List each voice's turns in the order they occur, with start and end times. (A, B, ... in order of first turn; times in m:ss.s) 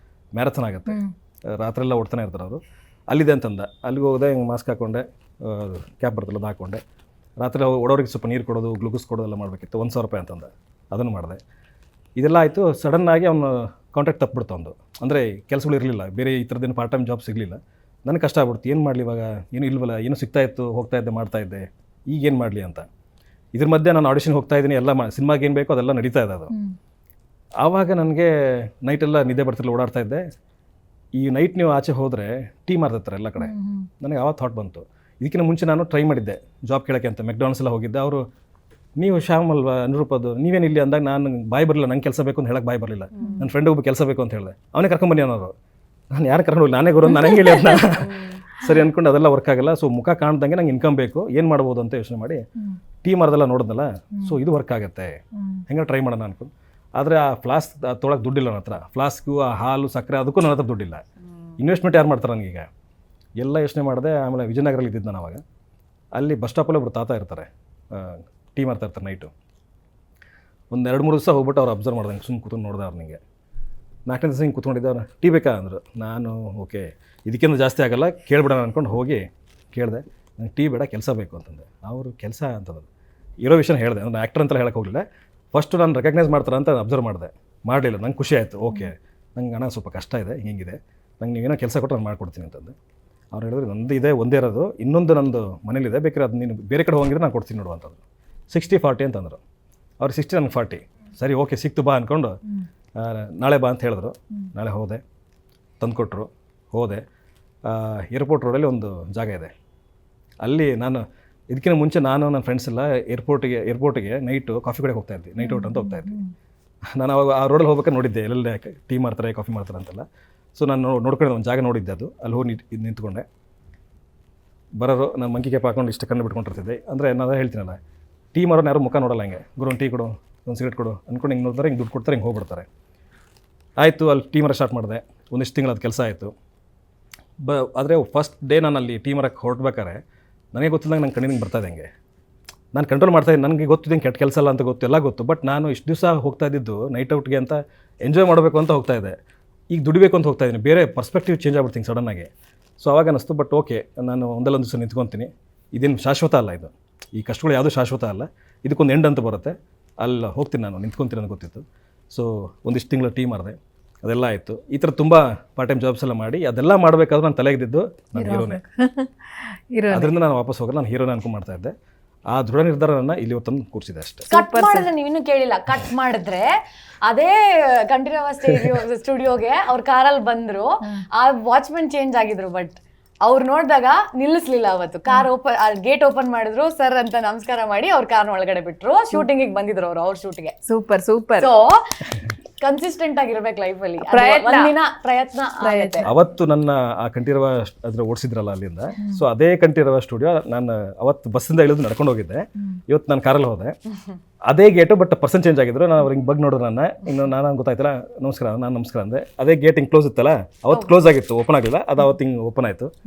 0:00.3-0:06.8 A
0:07.4-0:11.4 A
0:12.2-0:22.9 A
0:23.5-0:26.5 A
0:26.5-0:26.8 B
0:27.6-0:30.2 A
0:31.2-0:38.3 A
0:33.4-0:33.9 B
0:39.0-0:45.5 A
0:43.2-0:43.5 B
0:46.1-0:52.4 A
0:53.0-1:01.0 A
0:55.4-0:55.6 B
1:01.6-1:02.7 A
1:03.4-1:05.4 A
1:06.2-1:09.3 A
1:10.7-1:13.2 A
1:14.1-1:22.9 A
1:23.4-1:32.7 A
1:33.3-1:39.4 A
1:40.0-1:42.4 A
1:43.0-1:45.0 A
1:45.8-1:47.0 A
1:47.6-1:49.5 A
1:50.4-1:56.2 A
1:55.4-1:56.3 B
1:57.0-2:00.0 A
2:00.6-2:03.2 A
2:04.8-2:07.8 A
2:08.3-2:12.7 A
2:13.8-2:16.3 A
2:17.4-2:20.0 A
2:20.5-2:21.9 A
2:22.7-2:29.2 A
2:29.7-2:48.6 A
2:48.2-2:50.1 B
2:49.9-2:51.7 A
2:52.3-2:54.3 A
2:54.3-2:54.9 B
2:54.3-3:10.6 C
3:10.7-3:11.5 B
3:11.4-3:11.8 C
3:12.6-3:16.1 C
3:14.0-3:14.8 B
3:15.6-3:16.1 B
3:16.0-3:23.8 A
3:19.0-3:19.2 B
3:24.5-3:32.9 A